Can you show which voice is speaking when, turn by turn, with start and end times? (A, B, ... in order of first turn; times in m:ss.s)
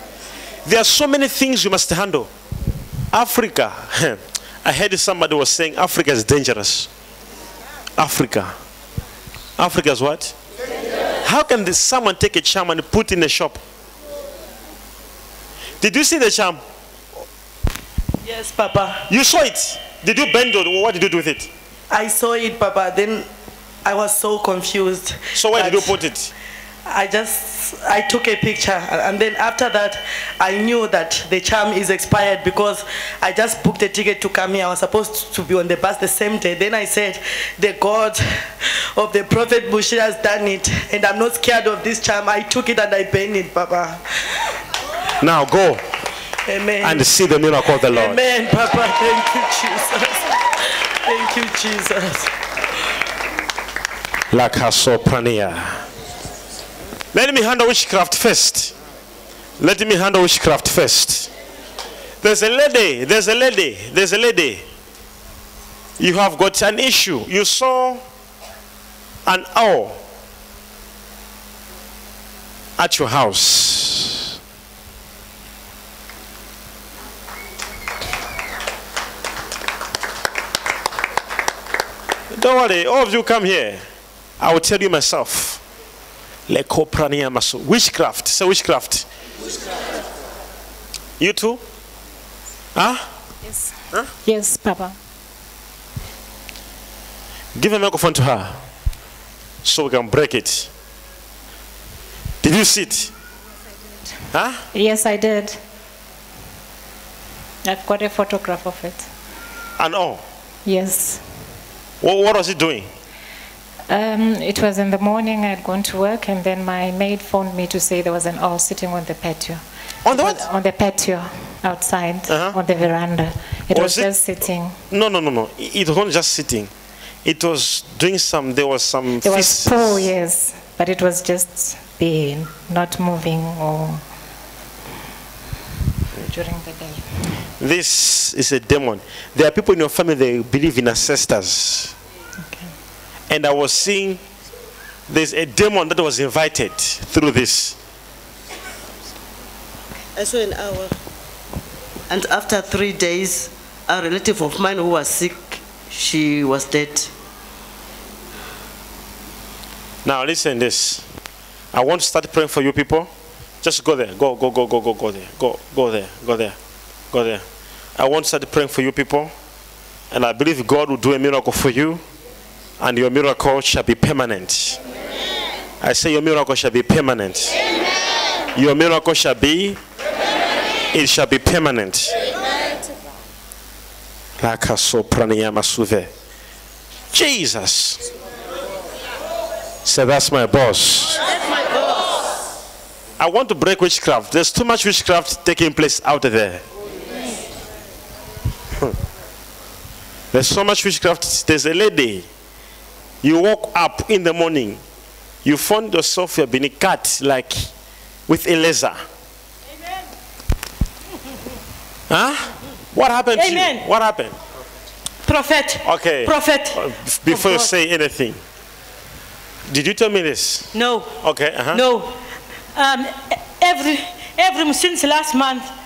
0:00.6-0:02.3 A
0:03.1-0:06.9 A
0:08.0-0:08.5 A
0:09.6-0:10.3 A
0:11.2-0:13.6 A
0:15.8-0:16.6 A
0:18.2-0:19.1 B
0:19.1-0:21.5 A
0:21.9-0:23.3 B
0:23.8-0:26.0 B
0:25.4-0:26.3 A
0:26.9-0:44.0 B
0:45.2-0:45.8 A
0:46.5-0:47.1 B
0:46.8-0:48.2 A
0:47.9-0:50.4 B
0:51.0-0:52.3 B
0:54.3-0:55.8 A
0:57.1-0:58.7 A
0:59.6-1:01.3 A
1:02.2-1:04.7 A
1:06.0-1:08.0 A
1:09.3-1:10.0 A
1:12.8-1:14.2 A
1:22.3-1:23.8 A
1:24.4-1:25.6 A
1:26.5-1:29.1 A
1:31.2-1:31.6 A
1:32.8-1:33.0 A
1:34.2-1:35.0 C
1:37.6-1:38.6 A
1:39.6-1:40.7 A
1:42.4-1:43.1 A
1:44.3-1:44.6 A
1:44.7-1:45.6 C
1:47.6-1:49.1 C
1:49.8-1:50.2 A
1:50.6-1:51.2 C
1:52.0-1:52.9 A
1:53.9-2:04.8 C
2:00.0-2:00.4 A
2:02.3-2:02.6 A
2:03.7-2:04.1 A
2:04.9-2:06.7 A
2:07.2-2:10.1 A
2:09.2-2:14.0 C
2:16.2-2:17.1 C
2:17.6-2:21.9 A
2:23.3-2:24.2 A
2:25.1-2:27.8 A
2:30.2-2:30.6 B
2:32.1-2:35.4 D
2:36.0-2:37.0 D
2:36.0-2:36.6 B
2:40.0-2:41.0 A
2:41.7-2:43.1 A
2:43.6-2:46.6 A
2:47.1-2:47.4 A
2:48.0-2:49.3 A
2:50.1-2:52.0 A
2:52.8-2:54.8 A
2:55.8-2:57.6 A
2:58.6-2:59.8 A
3:00.9-3:02.1 A
3:04.4-3:06.1 A
3:07.1-3:08.0 A
3:09.8-3:11.2 A
3:13.2-3:16.6 A
3:20.3-3:22.3 A
3:23.2-3:24.8 A
3:25.4-3:27.7 A
3:28.3-3:29.0 A
3:32.1-3:34.4 A
3:33.4-3:33.9 E
3:35.3-3:37.7 E
3:35.8-3:38.4 A
3:39.7-3:41.8 A
3:40.7-3:41.1 E
3:41.7-3:42.1 E
3:42.8-3:45.7 E